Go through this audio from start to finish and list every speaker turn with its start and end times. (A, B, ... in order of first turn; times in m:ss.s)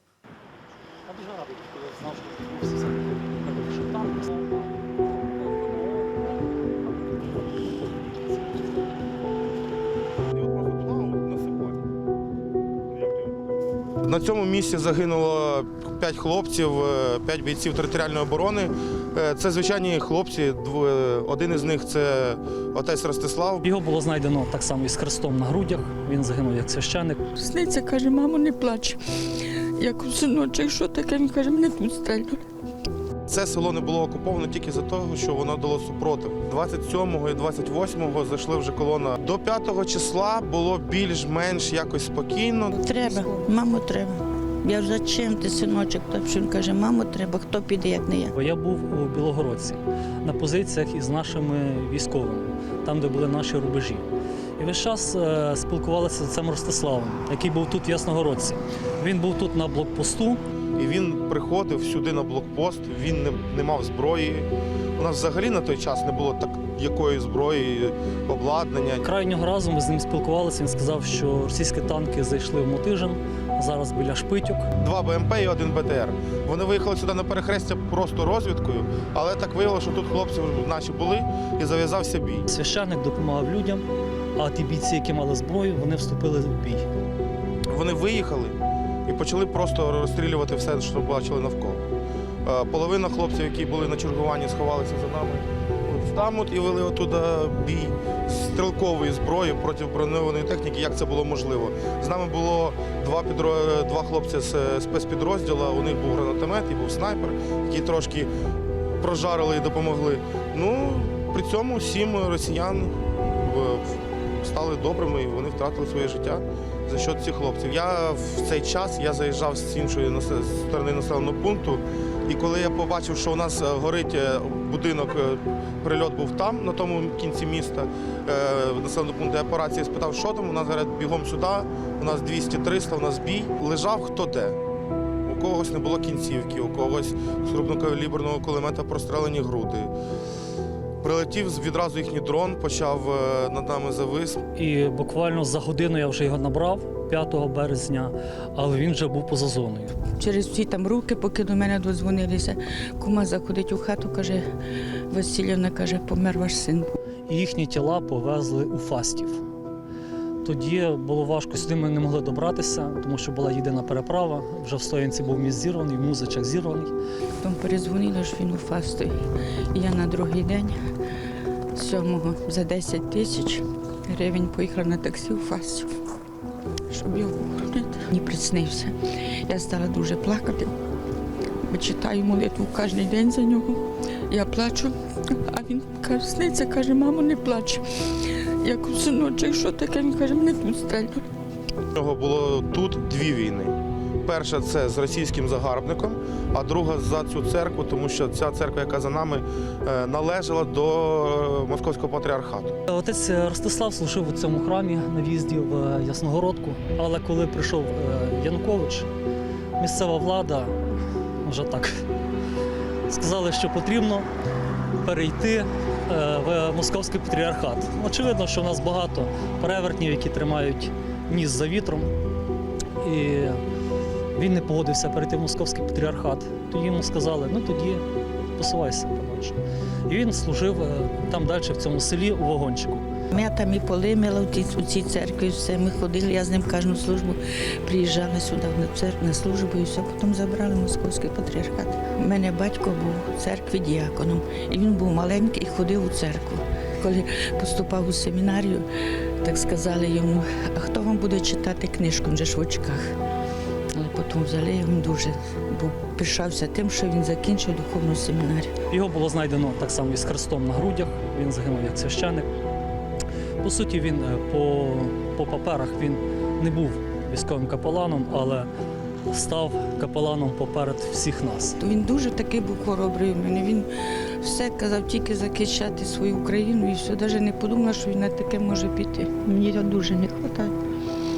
0:01.1-0:06.2 A
0:10.3-0:11.8 B
0:12.9-0:13.3 B
0:14.0-0:23.7 B
0:23.6-0:27.2 A
0:27.4-0:29.0 C
0:29.8-0:32.4 C
0:33.3-0:43.3 B
0:42.7-0:48.3 C
0:48.3-0:54.1 A
0:54.6-1:00.4 A
1:00.8-1:09.1 B
1:09.0-1:14.7 A
1:14.8-1:22.5 B
1:22.5-1:26.9 A
1:27.7-1:31.8 B
1:32.4-1:48.3 B
1:49.0-2:14.6 B
2:15.3-2:19.9 B
2:21.0-2:24.4 B
2:24.6-2:30.0 A
2:30.2-2:34.5 C
2:35.1-2:36.9 C
2:37.3-2:39.4 A
2:40.4-2:46.9 A
2:47.4-2:49.1 C
2:49.7-2:50.8 C
2:51.7-2:55.9 C
2:56.9-3:00.8 C
3:01.6-3:05.0 C
3:05.5-3:11.2 C
3:12.0-3:22.8 B
3:22.9-3:29.1 A
3:29.8-3:30.8 A
3:31.4-3:32.0 A
3:33.1-3:34.3 A
3:35.0-3:42.1 A
3:43.0-3:43.6 A
3:44.4-3:48.0 A
3:48.6-3:53.1 A
3:53.3-4:08.8 C
4:09.4-4:13.1 C
4:13.9-4:18.7 C
4:18.9-4:22.5 A
4:23.6-4:28.7 A
4:29.3-4:31.8 A
4:31.8-4:33.9 C
4:34.4-4:40.7 C